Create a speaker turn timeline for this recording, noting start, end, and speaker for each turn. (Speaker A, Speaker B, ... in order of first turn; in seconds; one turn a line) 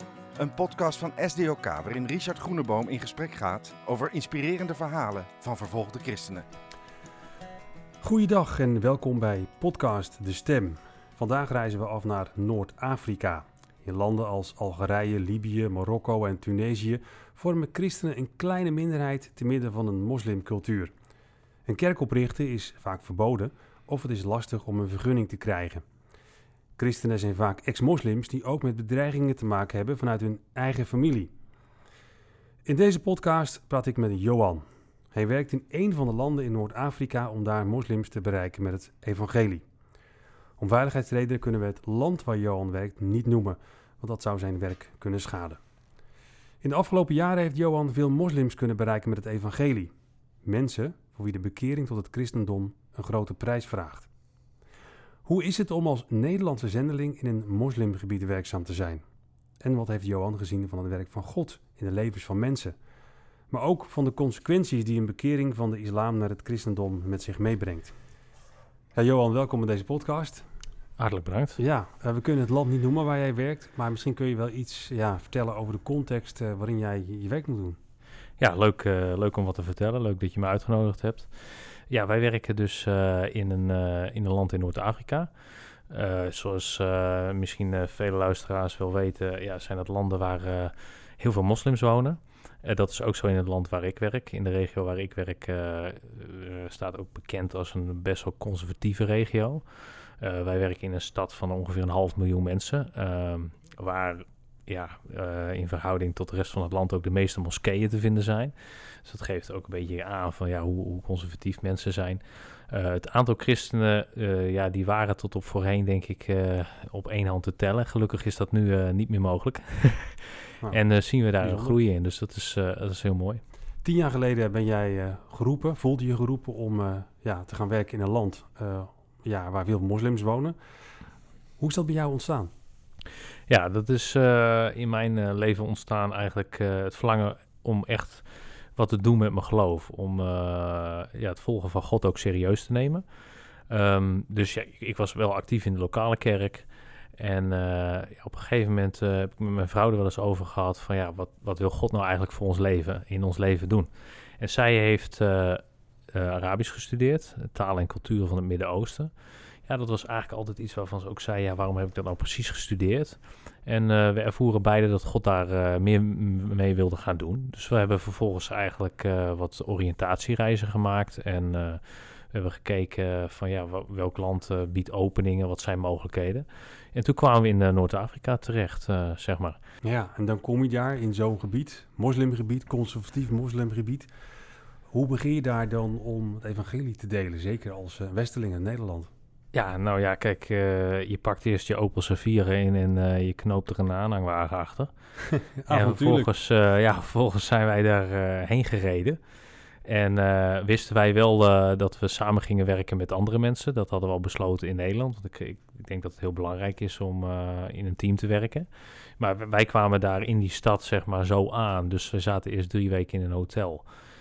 Speaker A: 0.4-6.5
Speaker B: 8.0-20.9
Speaker B: 21.7-25.8
Speaker B: 26.8-31.3
Speaker B: 32.6-39.6
Speaker B: 40.6-45.6
Speaker B: 46.6-49.9
Speaker B: 50.4-54.1
Speaker B: 55.2-59.0
Speaker B: 59.6-62.8
Speaker B: 63.5-68.0
Speaker B: 69.0-70.5
Speaker C: 71.0-71.6
Speaker B: 71.6-77.8
Speaker C: 78.4-85.3
Speaker C: 85.9-99.6
Speaker C: 100.2-123.4
Speaker B: 121.4-121.8
Speaker B: 123.8-130.6
Speaker B: 131.6-132.5
Speaker C: 133.5-138.2
Speaker C: 138.8-143.0
Speaker C: 143.7-155.6
Speaker C: 156.1-159.1
Speaker C: 159.7-179.6
Speaker B: 179.8-184.1
Speaker B: 184.9-189.1
Speaker C: 189.5-194.9
Speaker B: 195.3-196.3
Speaker C: 195.7-199.2
Speaker C: 199.9-208.7
Speaker C: 209.2-213.8